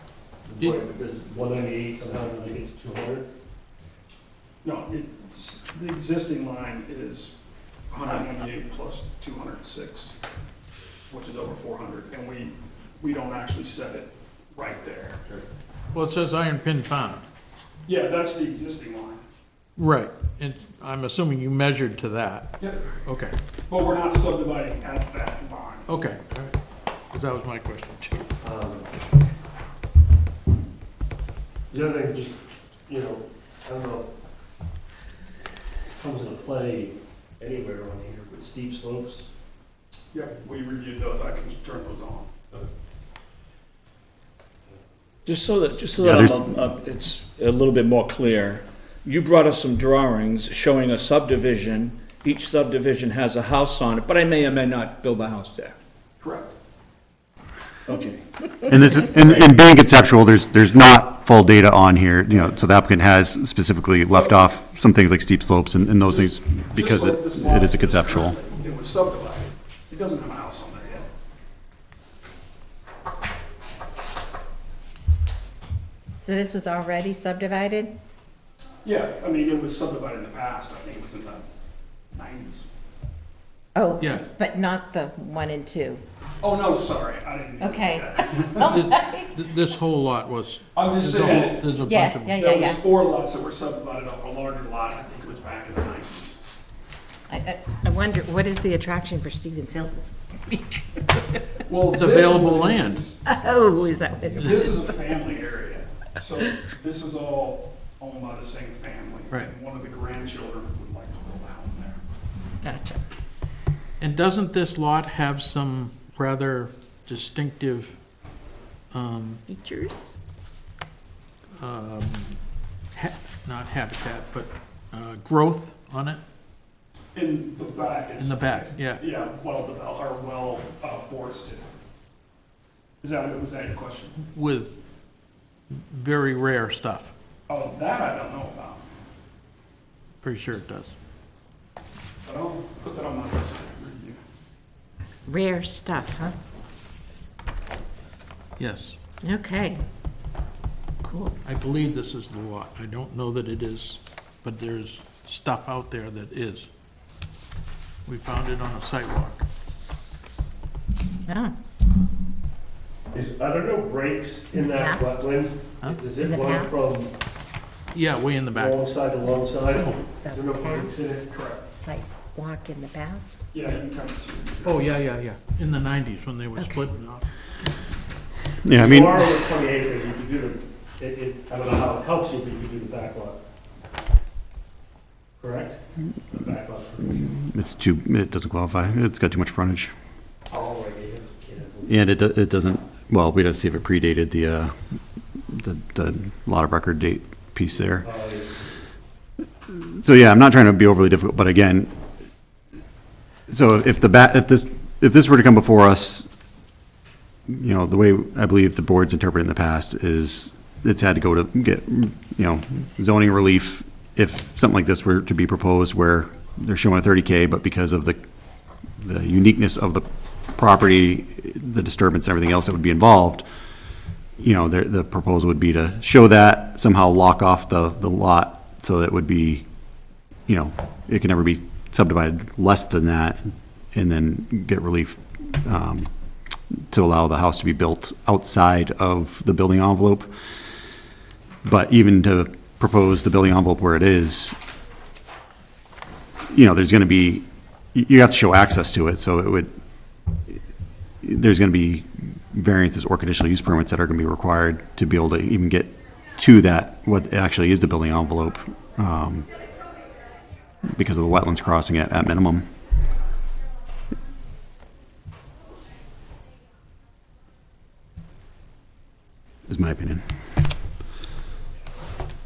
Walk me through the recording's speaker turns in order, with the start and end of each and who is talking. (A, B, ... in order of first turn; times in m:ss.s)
0:00.5-0:03.3 A
0:04.6-0:07.3 B
0:07.9-0:10.1 B
0:11.1-0:15.4 B
0:15.9-0:17.2 C
0:17.8-0:19.2 B
0:19.8-0:23.4 C
0:22.6-0:22.8 B
0:23.7-0:25.9 B
0:25.9-0:26.6 C
0:27.1-0:28.3 C
0:28.4-0:28.9 A
0:31.7-0:32.4 A
0:32.9-0:34.1 A
0:36.0-0:39.3 A
0:40.1-0:42.3 B
0:45.2-0:55.8 D
0:46.0-0:46.4 E
0:56.2-0:56.5 B
0:57.9-0:58.8 D
0:58.7-1:08.4 E
1:04.1-1:04.5 B
1:06.0-1:11.1 B
1:16.2-1:17.9 F
1:18.8-1:21.4 B
1:22.1-1:22.7 B
1:23.8-1:26.0 F
1:24.0-1:24.2 C
1:26.4-1:28.9 B
1:27.6-1:29.3 F
1:28.6-1:32.4 C
1:30.8-1:31.8 B
1:31.2-1:32.8 F
1:32.4-1:36.4 B
1:37.3-1:41.6 F
1:41.6-1:52.0 B
1:41.9-1:43.1 C
1:43.3-1:44.9 F
1:52.6-1:53.0 F
1:54.0-1:58.0 C
1:58.9-1:59.4 C
1:59.5-2:00.2 F
2:01.6-2:02.4 C
2:02.9-2:06.2 C
2:07.1-2:11.7 B
2:08.2-2:09.0 C
2:13.0-2:14.2 B
2:14.3-2:14.8 C
2:15.9-2:17.1 C
2:17.5-2:18.8 B
2:20.2-2:21.0 C
2:22.2-2:24.2 B
2:25.3-2:26.4 F
2:28.6-2:29.0 C
2:29.2-2:29.8 F
2:31.0-2:31.4 F
2:31.4-2:36.7 C
2:38.0-2:39.4 C
2:41.3-2:41.5 F
2:43.1-2:47.1 A
2:44.6-2:45.2 F
2:46.1-2:46.9 F
2:47.9-2:48.8 C
2:48.5-2:51.3 A
2:50.0-2:51.1 F
2:51.3-2:51.7 B
2:51.7-2:53.5 F
2:53.5-2:54.9 B
2:54.6-2:57.3 C
2:56.6-2:56.9 F
2:58.6-2:59.2 E
2:58.8-3:03.4 A
3:05.4-3:07.3 A
3:07.1-3:09.9 E
3:10.5-3:11.9 A
3:11.9-3:14.8 E
3:15.4-3:18.1 E
3:18.0-3:18.6 A
3:19.7-3:21.9 E
3:23.5-3:26.3 E
3:27.5-3:38.2 E
3:39.0-3:43.4 E
3:44.4-3:49.6 E
3:50.5-3:56.1 E
3:56.9-4:00.3 E
4:01.6-4:04.6 E
4:06.5-4:09.7 E
4:11.2-4:19.5 E
4:20.9-4:22.7 E
4:29.7-4:30.2 E